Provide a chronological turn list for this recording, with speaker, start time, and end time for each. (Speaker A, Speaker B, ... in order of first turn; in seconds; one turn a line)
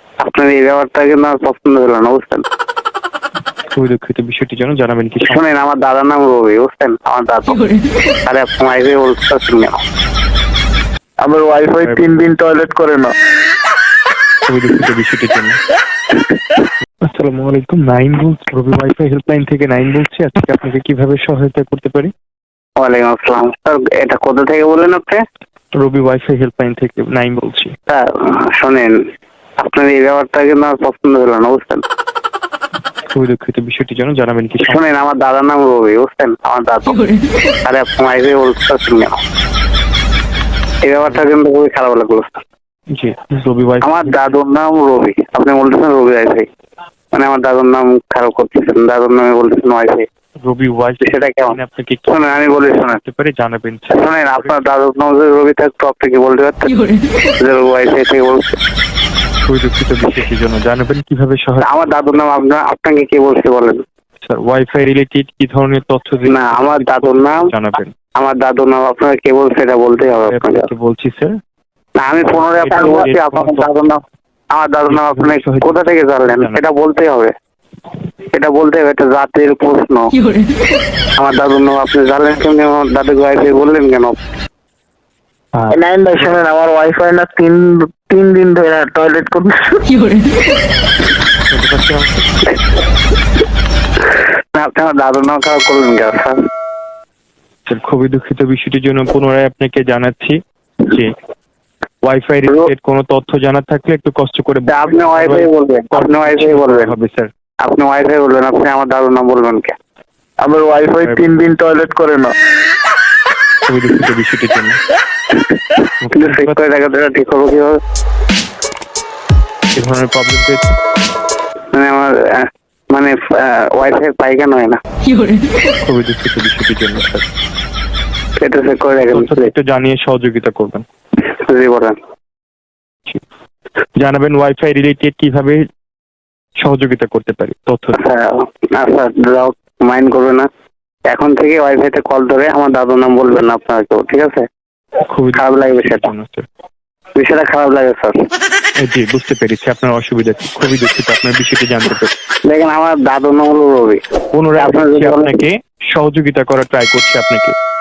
Speaker A: 0.2-2.4
Speaker B: 3.7-5.4
Speaker A: 5.2-7.7
Speaker A: 8.3-9.8
Speaker C: 11.2-13.2
Speaker B: 11.8-12.1
Speaker B: 14.5-15.6
Speaker B: 17.0-22.1
Speaker A: 22.8-25.2
Speaker B: 25.8-27.7
Speaker A: 27.9-29.0
Speaker A: 29.6-31.8
Speaker B: 33.1-34.8
Speaker A: 34.6-37.1
Speaker A: 37.6-39.2
Speaker A: 40.8-42.4
Speaker B: 41.1-41.4
Speaker B: 42.9-44.4
Speaker A: 43.8-46.5
Speaker A: 47.1-50.1
Speaker B: 50.4-54.6
Speaker A: 51.0-53.0
Speaker A: 53.9-58.6
Speaker B: 59.4-61.9
Speaker A: 61.6-63.8
Speaker B: 64.2-67.9
Speaker A: 66.3-67.5
Speaker A: 68.2-70.7
Speaker B: 70.3-71.3
Speaker A: 72.0-77.3
Speaker B: 72.1-73.7
Speaker B: 74.9-76.6
Speaker A: 78.3-80.2
Speaker A: 81.2-84.2
Speaker B: 85.5-86.3
Speaker C: 85.7-89.8
Speaker B: 91.5-92.3
Speaker A: 94.5-96.4
Speaker B: 97.7-101.2
Speaker B: 102.0-107.3
Speaker A: 104.7-106.9
Speaker A: 107.6-109.8
Speaker C: 110.4-112.3
Speaker B: 111.0-111.3
Speaker B: 113.7-114.8
Speaker B: 116.0-116.6
Speaker A: 116.2-117.8
Speaker B: 119.8-120.8
Speaker A: 121.7-124.8
Speaker B: 125.8-127.2
Speaker A: 128.4-129.5
Speaker B: 129.1-130.8
Speaker A: 131.2-132.0
Speaker B: 134.0-135.6
Speaker B: 136.6-138.0
Speaker A: 137.9-140.5
Speaker A: 141.1-144.5
Speaker B: 145.1-146.4
Speaker A: 145.3-146.1
Speaker A: 147.2-148.2
Speaker B: 148.8-152.1
Speaker A: 152.4-154.0
Speaker B: 154.3-157.6
Speaker A: 154.6-155.4